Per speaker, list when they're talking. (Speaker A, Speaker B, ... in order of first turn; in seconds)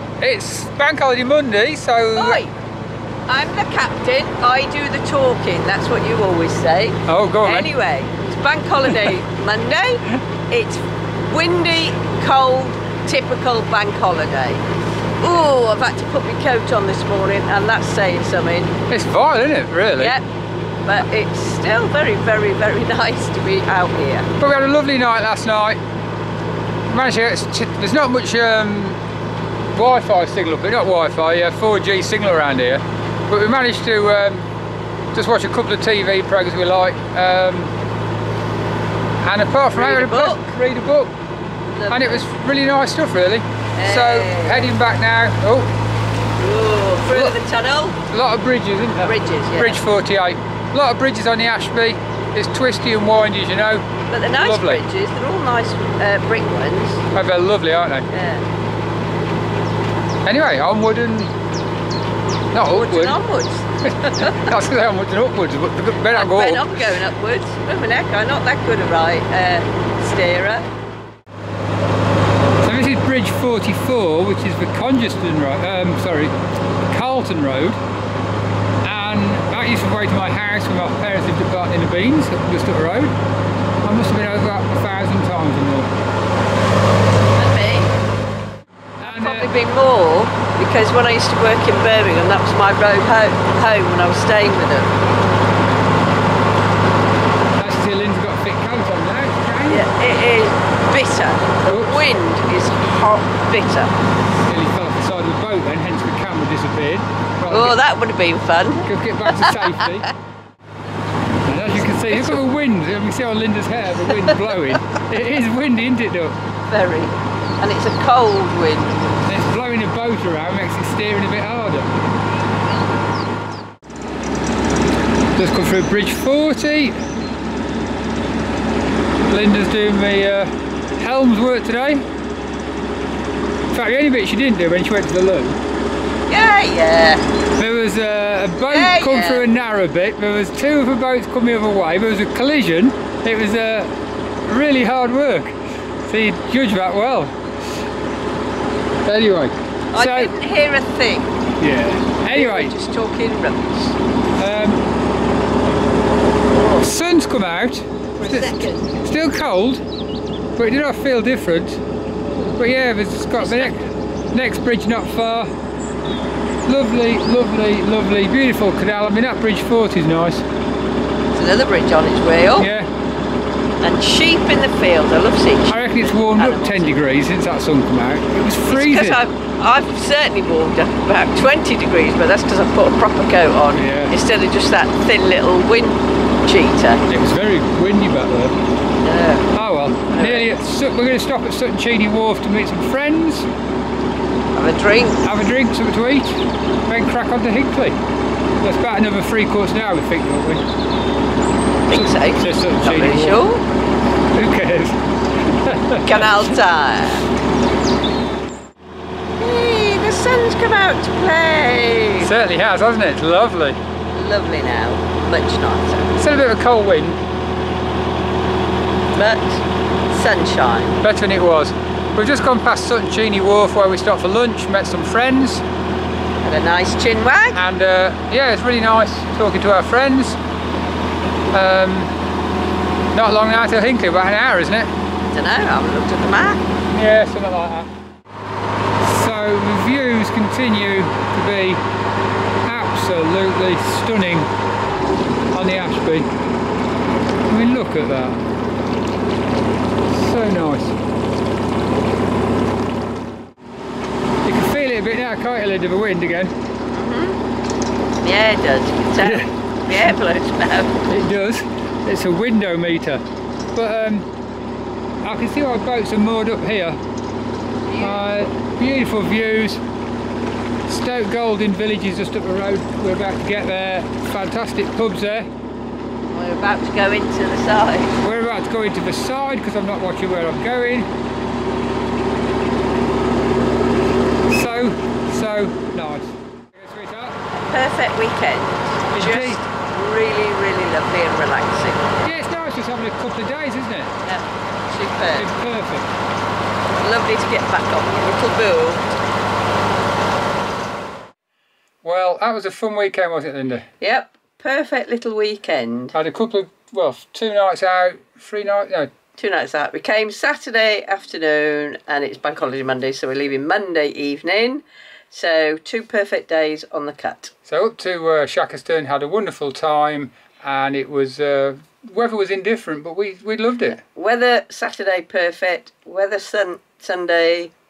Speaker A: 0.2-2.4, 7.1-7.7, 18.9-20.2, 24.4-25.8, 26.9-29.0, 29.7-34.5, 35.1-37.7, 39.2-41.1, 41.9-45.7, 47.1-47.4, 48.1-54.8, 57.1-58.1, 60.2-61.3, 62.5-63.2, 64.0-67.0, 72.6-76.3, 76.9-77.8, 78.8-83.2, 83.8-85.9, 89.0-89.5, 97.6-99.9, 101.7-102.1, 104.5-107.8, 108.8-110.1, 111.4-116.4, 119.2-121.9, 125.4-127.0, 129.3-132.1, 133.7-135.6, 137.6-143.9, 144.5-147.3, 149.1-150.3, 151.6-152.7, 154.4-154.8, 156.8-159.8, 160.6-161.8, 162.4-165.5, 166.7-170.4, 172.6-172.9, 175.7-179.2, 183.7-184.2, 187.1-188.6, 189.5-193.5, 195.2-198.0, 198.6-200.6, 201.9-203.4, 204.3-206.6, 212.2-213.8, 216.2-217.2, 221.0-225.7, 227.5-230.4, 231.5-232.1, 233.1-234.9, 236.9-237.9, 239.0-241.8, 242.7-244.5, 245.5-246.3, 247.5-248.4, 250.1-251.0, 254.4-256.5, 259.2-260.1, 261.1-263.2, 263.8-264.3, 265.2-267.0, 268.0-269.8, 270.9-275.5, 278.2-281.1, 284.5-287.4, 289.1-289.6, 292.2-294.1, 295.4-296.1, 302.0-303.9, 306.1-309.1, 317.7-324.0
Speaker B: 2.2-2.5, 3.3-14.7, 15.2-18.8, 20.0-20.3, 20.9-24.3, 39.7-40.5, 41.7-42.2, 43.8-44.8, 46.4-48.0, 49.0-49.9, 54.1-57.1, 58.1-58.4, 62.7-64.5, 66.1-70.7, 87.3-87.9, 89.0-95.0, 99.7-103.9, 107.5-110.1, 112.0-112.4, 116.7-119.1, 136.3-137.2, 138.7-139.4, 149.9-151.4, 152.3-154.0, 156.5-156.9, 158.2-158.9, 163.4-163.9, 171.3-172.7, 173.8-177.0, 178.7-187.0, 189.0-189.5, 190.1-190.5, 194.6-195.2, 201.9-203.6, 206.0-207.3, 209.4-212.3, 214.1-216.2, 219.1-221.0, 226.4-227.6, 235.3-236.7, 256.9-257.4, 258.2-261.0, 267.9-268.2, 276.3-278.2, 287.6-292.3, 294.2-295.5, 297.0-299.1, 304.0-306.1, 309.4-317.5, 324.0-327.7